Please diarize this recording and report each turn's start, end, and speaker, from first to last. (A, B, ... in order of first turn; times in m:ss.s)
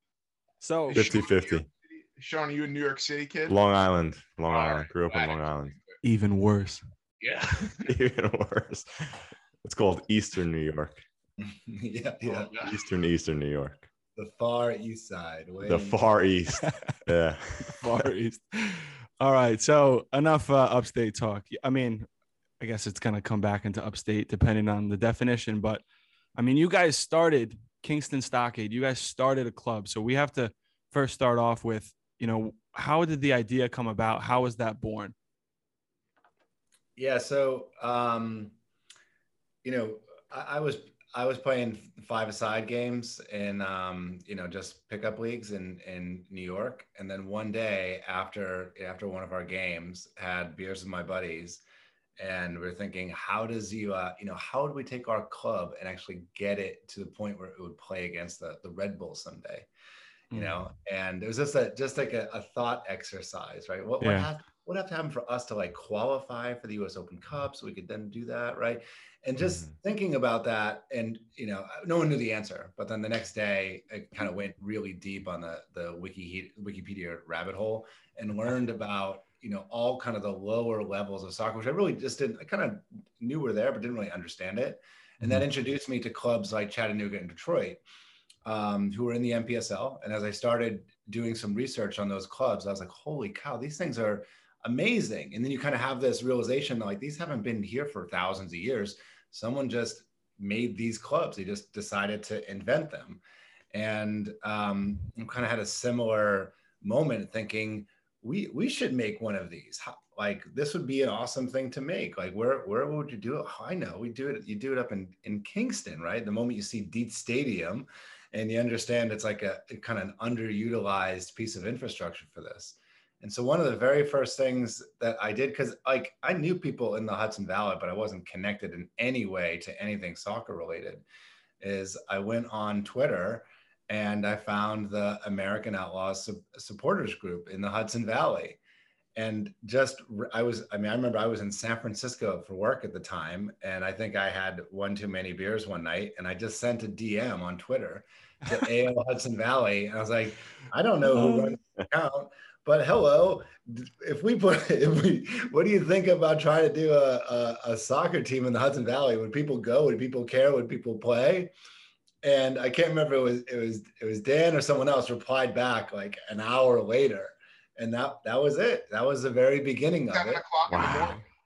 0:00.6-0:01.1 A
0:00.9-0:03.6 B
0:00.9-0:01.6 C
0:03.5-0:05.7 C
0:04.5-0:06.0 B
0:06.0-0:06.8 A
0:07.2-0:07.9 B
0:07.8-0:11.0 C
0:11.4-0:12.5 D
0:12.3-0:12.7 B
0:12.6-0:13.9 C
0:14.2-0:16.0 D
0:15.6-0:17.8 C
0:16.6-0:17.0 A
0:17.6-0:22.1 A
0:22.6-0:25.8 A
0:26.4-0:35.1 A
0:37.0-0:38.5 D
0:39.6-0:51.6 D
0:52.2-0:59.7 D
1:00.3-1:00.6 A
1:00.3-1:27.8 D
1:04.0-1:04.3 A
1:28.4-1:43.2 D
1:43.7-2:11.0 D
2:11.6-2:18.6 D
2:19.2-2:41.5 D
2:31.2-2:31.5 A
2:42.2-2:50.4 D
2:50.1-2:51.2 B
2:50.7-2:51.2 C